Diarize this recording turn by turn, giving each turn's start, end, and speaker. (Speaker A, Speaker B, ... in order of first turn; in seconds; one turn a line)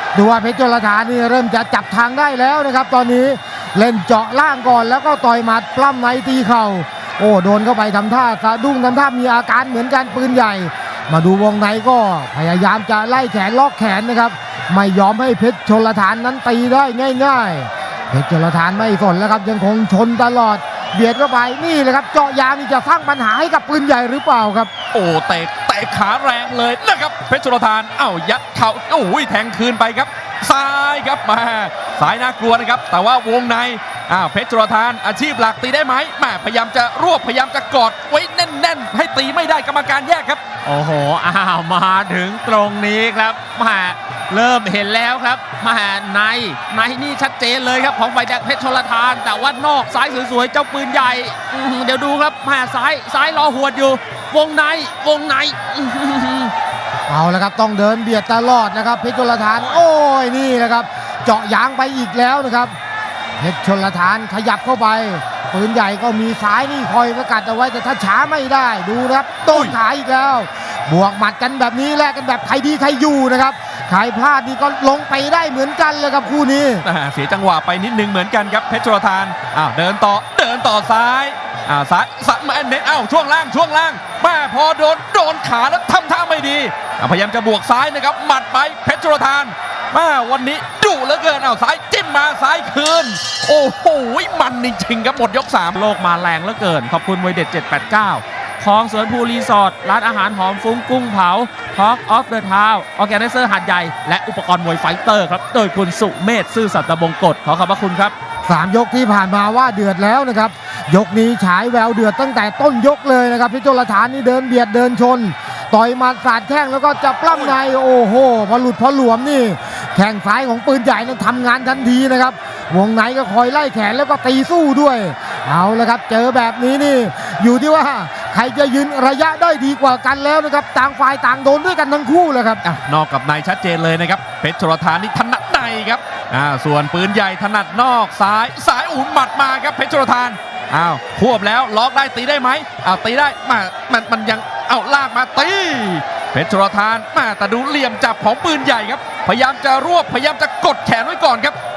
Speaker A: 0.1-24.7
Speaker B: 24.9-40.4
Speaker C: 40.6-56.5
Speaker A: 57.1-62.7
Speaker A: 63.4-76.8
Speaker B: 69.5-69.8
Speaker B: 76.8-95.8
Speaker C: 95.7-108.1
Speaker A: 108.5-132.6
Speaker B: 132.6-151.6